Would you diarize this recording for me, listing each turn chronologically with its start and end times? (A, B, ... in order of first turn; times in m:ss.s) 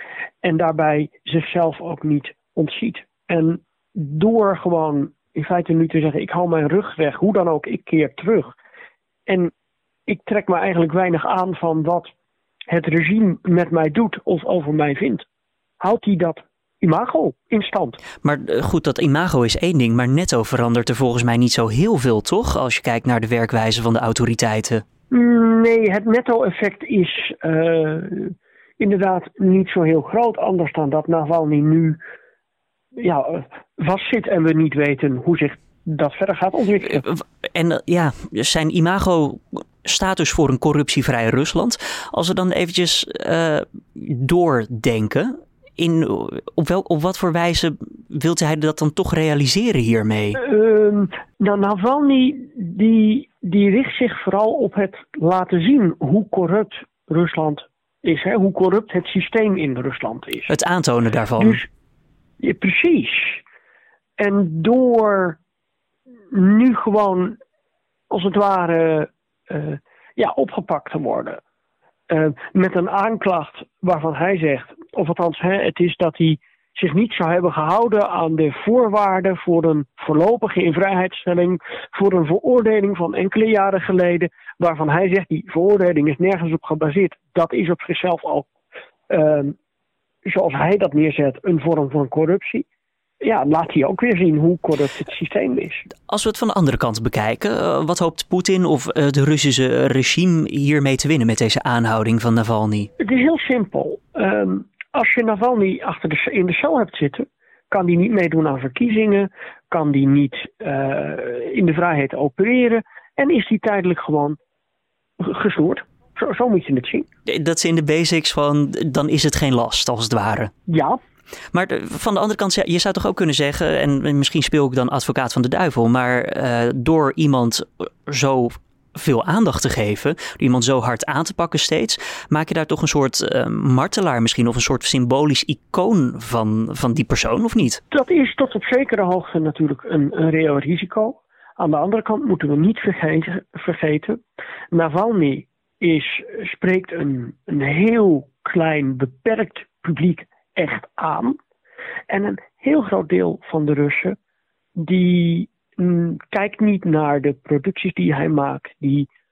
0:00.4-0:08.5 A
0:09.3-0:09.5 A
0:10.1-0:12.1 A
0:12.7-0:15.2 A
0:15.8-0:18.0 A
0:18.2-0:24.8 B
0:25.1-0:32.0 A
0:33.0-0:37.0 A
0:37.0-0:50.4 B
0:50.4-1:00.5 A
1:00.5-1:01.6 B
1:01.4-1:01.6 A
1:02.4-1:03.4 A
1:04.2-1:05.4 A
1:06.3-1:07.4 A
1:08.1-1:11.4 A
1:12.1-1:28.5 A
1:29.1-1:29.6 A
1:30.2-1:32.7 A
1:33.2-1:35.9 A
1:36.1-1:42.9 B
1:43.0-1:54.4 A
1:55.2-1:57.0 A
1:57.3-2:00.5 B
2:00.7-2:01.0 A
2:01.5-2:17.8 B
2:17.9-2:24.2 A
2:24.7-2:31.4 A
2:32.1-2:34.2 A
2:34.8-2:39.1 A